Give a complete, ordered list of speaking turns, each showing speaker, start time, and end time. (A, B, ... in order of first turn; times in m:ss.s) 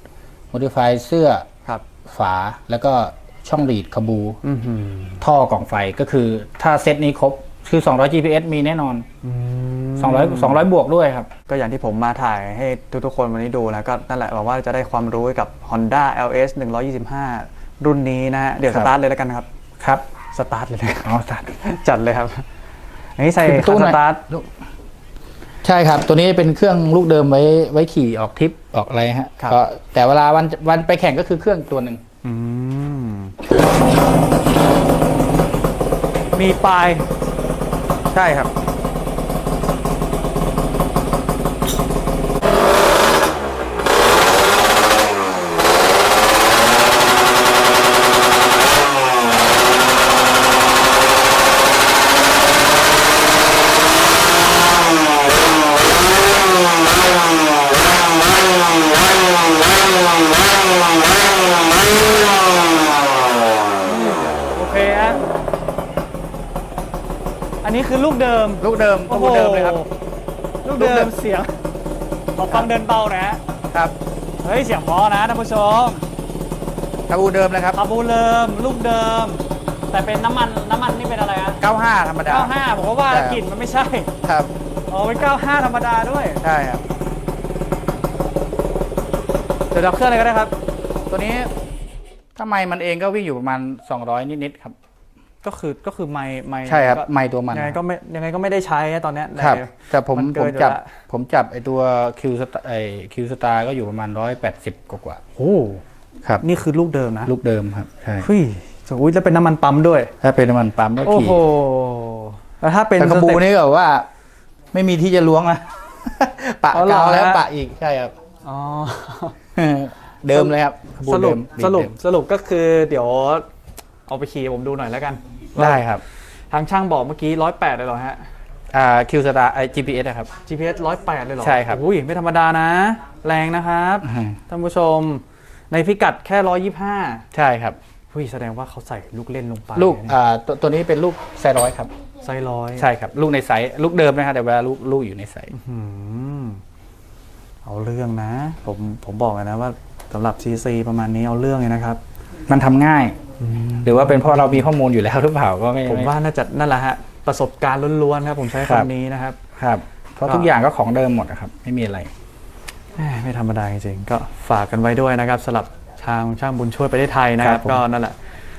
0:00.5-0:01.5 A
0:02.1-0:04.4 A
0:04.4-0:05.2 B
0:05.2-0:09.0 A
0:09.2-0:10.6 B
0:10.0-0:11.3 A
0:11.5-0:19.5 B
0:18.7-0:18.9 A
0:20.3-0:22.4 B
0:21.0-0:21.6 A
0:23.2-0:24.2 B
0:23.4-0:24.5 A
0:25.6-0:32.0 A
0:32.2-0:33.4 B
0:36.3-0:37.1 B
0:38.1-0:38.5 A
1:03.8-1:05.2 B
1:07.6-1:09.9 B
1:08.6-1:09.8 A
1:10.6-1:11.6 B
1:10.8-1:11.1 A
1:12.4-1:13.4 B
1:14.4-1:16.0 B
1:17.1-1:17.8 A
1:17.7-1:21.6 B
1:21.6-1:22.5 A
1:22.3-1:24.1 B
1:23.1-1:23.4 A
1:24.2-1:24.5 A
1:24.9-1:26.4 B
1:26.4-1:26.8 A
1:29.7-1:30.5 B
1:31.1-1:31.5 A
1:32.4-1:34.7 A
1:35.4-1:41.0 B
1:36.7-1:37.8 A
1:39.4-1:45.2 A
1:45.4-1:45.8 B
1:46.4-1:47.3 B
1:47.3-1:48.3 A
1:48.2-1:50.1 B
1:50.2-1:51.4 A
1:51.0-1:53.4 B
1:53.0-1:54.1 A
1:54.7-1:58.1 A
1:56.7-1:57.4 B
1:58.4-1:59.4 B
1:59.6-2:01.9 A
2:00.3-2:00.6 B
2:01.1-2:03.5 B
2:04.1-2:05.8 B
2:05.6-2:06.0 A
2:06.5-2:08.2 B
2:08.7-2:10.3 A
2:10.4-2:17.2 B
2:11.4-2:11.8 A
2:14.0-2:14.4 A
2:17.3-2:17.8 A
2:18.1-2:20.2 B
2:19.8-2:21.9 A
2:22.2-2:22.9 B
2:22.8-2:25.5 A
2:25.5-2:26.6 B
2:27.6-2:32.0 B
2:32.5-2:33.2 A
2:33.4-2:34.7 B
2:33.8-2:36.1 A
2:35.9-2:39.4 B
2:38.6-2:38.9 A
2:39.6-2:42.1 A
2:40.2-2:40.5 B
2:43.0-2:48.2 B
2:47.4-2:47.8 A